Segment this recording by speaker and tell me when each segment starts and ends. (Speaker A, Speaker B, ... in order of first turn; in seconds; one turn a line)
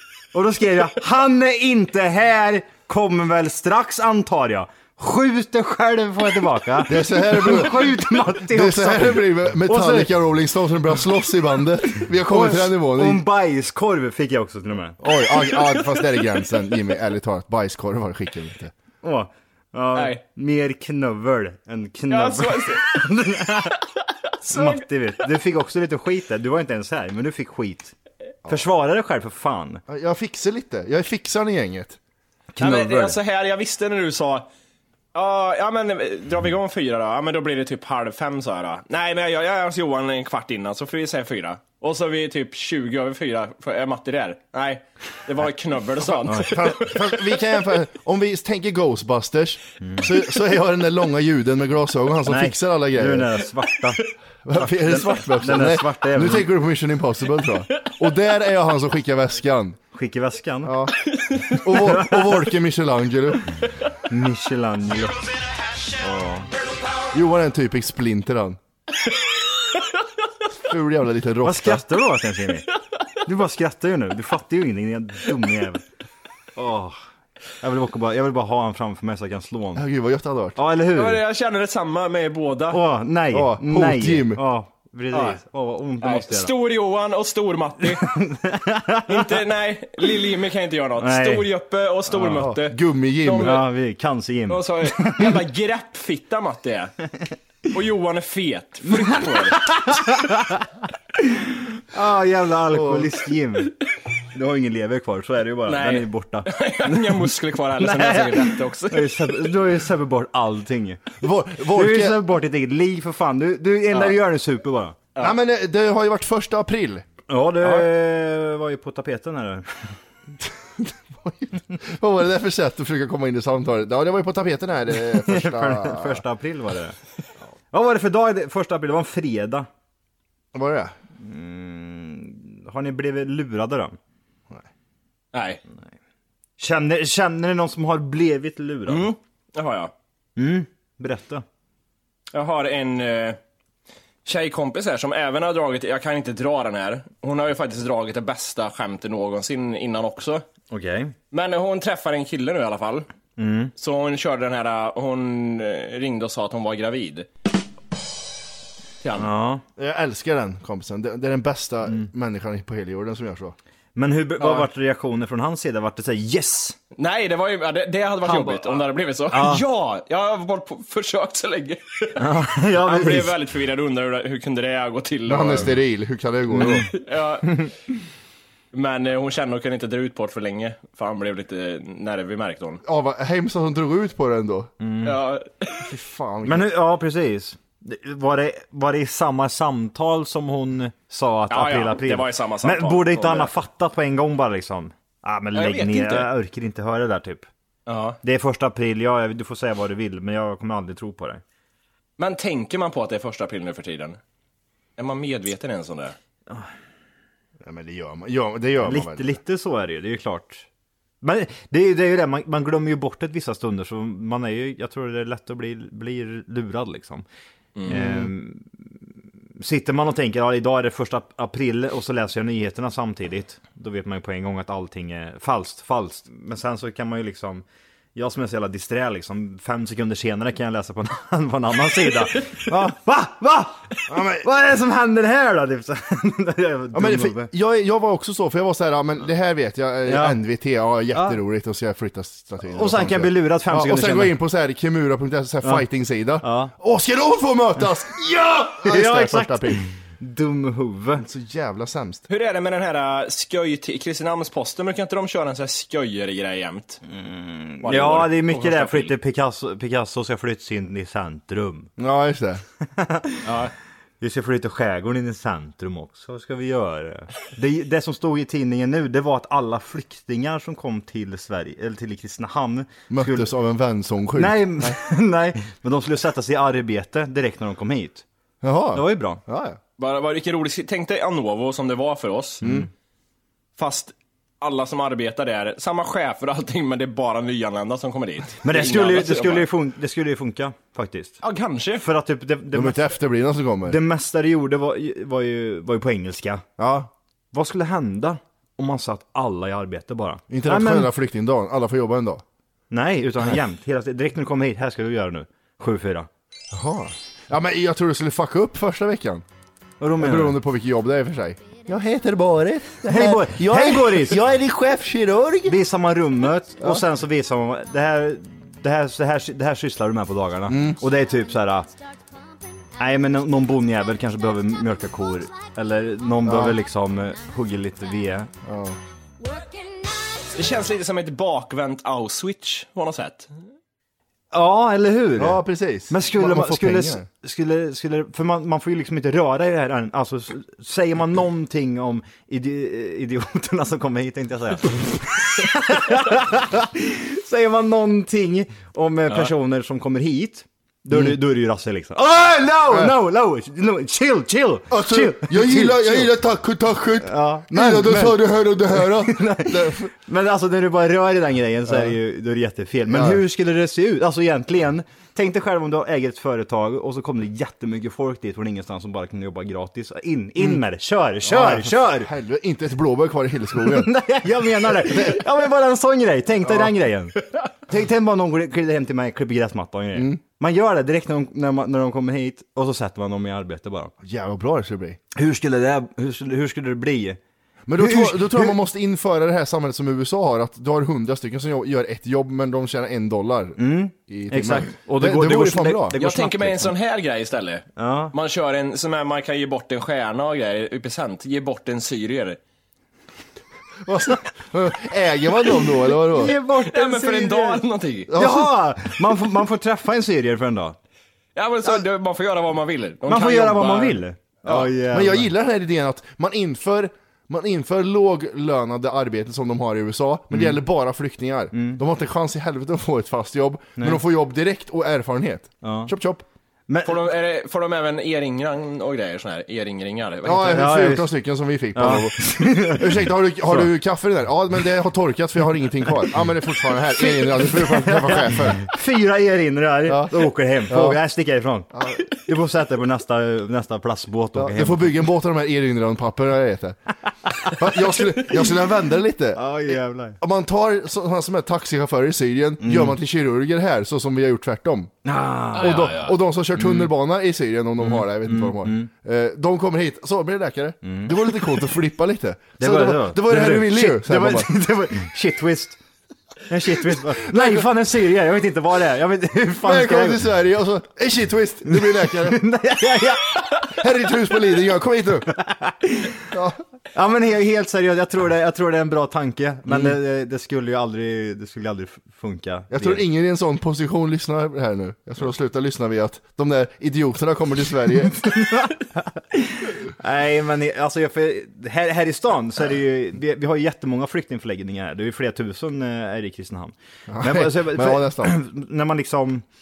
Speaker A: 0.3-10.1
Speaker B: 6.8-13.2
Speaker A: 12.3-15.0
Speaker B: 15.0-18.7
Speaker A: 19.0-23.8
Speaker C: 19.9-20.2
Speaker C: 22.1-23.0
Speaker A: 24.4-27.9
Speaker C: 24.5-24.8
Speaker A: 28.5-29.8
Speaker B: 29.9-32.0
Speaker A: 32.5-33.2
Speaker C: 32.6-34.5
Speaker C: 35.1-47.4
Speaker A: 46.2-46.5
Speaker B: 46.4-53.4
Speaker A: 49.8-50.1
Speaker A: 52.3-56.5
Speaker B: 54.5-59.8
Speaker A: 59.9-60.8
Speaker B: 60.6-61.0
Speaker C: 61.3-61.6
Speaker B: 61.5-63.5
Speaker A: 61.8-62.4
Speaker A: 64.1-65.3
Speaker A: 66.0-66.5
Speaker B: 67.1-68.6
Speaker B: 70.6-71.8
Speaker A: 71.4-72.7
Speaker A: 73.2-75.8
Speaker A: 76.5-77.0
Speaker A: 77.6-79.8
Speaker B: 79.8-80.6
Speaker A: 80.5-81.2
Speaker C: 81.0-82.8
Speaker A: 82.7-86.5
Speaker B: 83.3-84.4
Speaker C: 85.1-85.4
Speaker C: 86.0-88.0
Speaker A: 88.0-89.3
Speaker C: 89.1-93.7
Speaker A: 91.0-91.5
Speaker B: 92.3-93.5
Speaker A: 93.4-95.3
Speaker C: 94.5-96.9
Speaker C: 97.7-100.0
Speaker A: 99.0-100.7
Speaker A: 101.2-103.8
Speaker B: 102.7-103.1
Speaker A: 104.3-111.2
Speaker C: 105.7-109.5
Speaker B: 111.2-112.2
Speaker A: 111.7-115.0
Speaker C: 113.9-114.2
Speaker B: 115.2-117.0
Speaker A: 117.3-119.9
Speaker C: 117.6-117.9
Speaker B: 120.8-126.2
Speaker A: 125.0-127.0
Speaker A: 127.7-129.7
Speaker B: 130.5-130.9
Speaker A: 131.2-134.0
Speaker C: 135.3-135.6
Speaker A: 136.6-139.2
Speaker C: 138.9-139.9
Speaker A: 140.3-141.4
Speaker C: 142.3-143.4
Speaker C: 144.2-150.4
Speaker A: 150.7-151.2
Speaker C: 151.3-153.1
Speaker A: 153.4-153.7
Speaker C: 153.8-157.3
Speaker A: 159.2-159.6
Speaker B: 159.8-163.6
Speaker A: 163.9-166.8
Speaker C: 164.4-164.7
Speaker C: 167.0-175.8
Speaker A: 168.2-169.6
Speaker A: 172.2-173.3
Speaker B: 175.3-176.9
Speaker A: 176.5-176.9
Speaker C: 176.9-177.6
Speaker C: 178.7-182.8
Speaker B: 182.8-184.7
Speaker A: 184.8-185.2
Speaker C: 185.0-185.9
Speaker B: 185.8-186.7
Speaker A: 186.4-197.5
Speaker C: 191.5-193.5
Speaker C: 195.5-196.3
Speaker C: 197.9-198.2
Speaker A: 198.2-201.4
Speaker C: 202.2-204.2
Speaker C: 205.0-206.2
Speaker B: 207.6-209.4
Speaker A: 208.8-210.7
Speaker A: 211.2-217.2
Speaker C: 217.8-218.3
Speaker A: 217.8-218.7
Speaker A: 219.6-237.5
Speaker B: 234.1-234.5
Speaker B: 236.9-249.8
Speaker A: 240.1-240.4
Speaker A: 241.1-241.4
Speaker A: 242.7-244.3
Speaker A: 246.4-246.7
Speaker A: 248.8-251.2
Speaker B: 251.2-252.2
Speaker C: 252.3-257.0
Speaker A: 257.1-261.9
Speaker C: 257.8-259.1
Speaker B: 262.0-262.6
Speaker A: 262.9-263.5
Speaker C: 263.4-263.7
Speaker A: 264.2-273.5
Speaker B: 273.1-275.0
Speaker A: 274.4-278.2
Speaker B: 278.6-279.8
Speaker A: 278.9-279.4
Speaker C: 280.0-282.7
Speaker B: 282.6-282.9
Speaker C: 283.8-289.7
Speaker A: 288.6-291.4
Speaker C: 291.4-292.0
Speaker A: 292.0-293.1
Speaker B: 292.7-294.0
Speaker A: 293.9-296.6
Speaker B: 296.8-297.1
Speaker A: 297.5-301.1
Speaker B: 300.5-302.4
Speaker A: 302.9-306.3
Speaker B: 306.7-309.4
Speaker A: 310.0-310.6
Speaker B: 310.2-315.8
Speaker A: 313.1-314.4
Speaker A: 315.6-321.9
Speaker B: 316.8-317.0
Speaker B: 320.7-321.0
Speaker A: 323.0-328.5
Speaker B: 326.4-326.8
Speaker B: 328.6-329.0
Speaker C: 330.5-333.5
Speaker A: 334.5-356.3
Speaker B: 335.4-337.3
Speaker B: 351.1-351.4
Speaker B: 352.9-353.1
Speaker B: 354.9-360.1
Speaker A: 357.2-358.4
Speaker A: 358.9-372.3
Speaker B: 361.9-362.1
Speaker B: 363.1-363.4
Speaker B: 371.4-374.1
Speaker A: 373.8-384.1
Speaker B: 374.8-375.4
Speaker B: 376.6-376.9
Speaker B: 380.1-380.4
Speaker B: 384.2-385.2
Speaker A: 385.4-387.4
Speaker B: 387.9-396.1
Speaker A: 388.0-388.8
Speaker A: 393.8-396.9
Speaker C: 396.2-402.6
Speaker A: 398.0-398.3
Speaker B: 404.0-406.5
Speaker A: 406.3-407.8
Speaker C: 406.5-408.3
Speaker B: 408.3-408.7
Speaker A: 408.3-411.0
Speaker C: 411.5-414.9
Speaker A: 413.3-415.5
Speaker B: 415.1-426.4
Speaker A: 420.5-420.8
Speaker A: 421.7-422.0
Speaker A: 425.8-426.1
Speaker A: 426.9-427.2
Speaker C: 427.0-430.9
Speaker B: 430.4-438.9
Speaker A: 430.7-431.3
Speaker A: 431.9-433.9
Speaker A: 437.6-445.2
Speaker B: 440.1-441.2
Speaker B: 441.9-442.2
Speaker B: 444.5-447.0
Speaker B: 447.6-449.6
Speaker A: 449.5-450.4
Speaker B: 450.4-455.1
Speaker A: 452.8-453.1
Speaker A: 455.2-456.1
Speaker B: 455.8-464.7
Speaker C: 455.8-456.4
Speaker A: 456.8-457.1
Speaker A: 458.0-459.1
Speaker A: 461.0-461.4
Speaker A: 462.8-466.0
Speaker A: 466.7-470.4
Speaker B: 467.4-467.9
Speaker B: 469.8-472.6
Speaker A: 471.9-473.8
Speaker B: 473.9-475.5
Speaker A: 475.6-476.4
Speaker B: 476.5-476.8
Speaker A: 477.1-483.2
Speaker B: 479.9-480.1
Speaker B: 482.9-488.4
Speaker A: 488.4-499.6
Speaker B: 497.3-498.6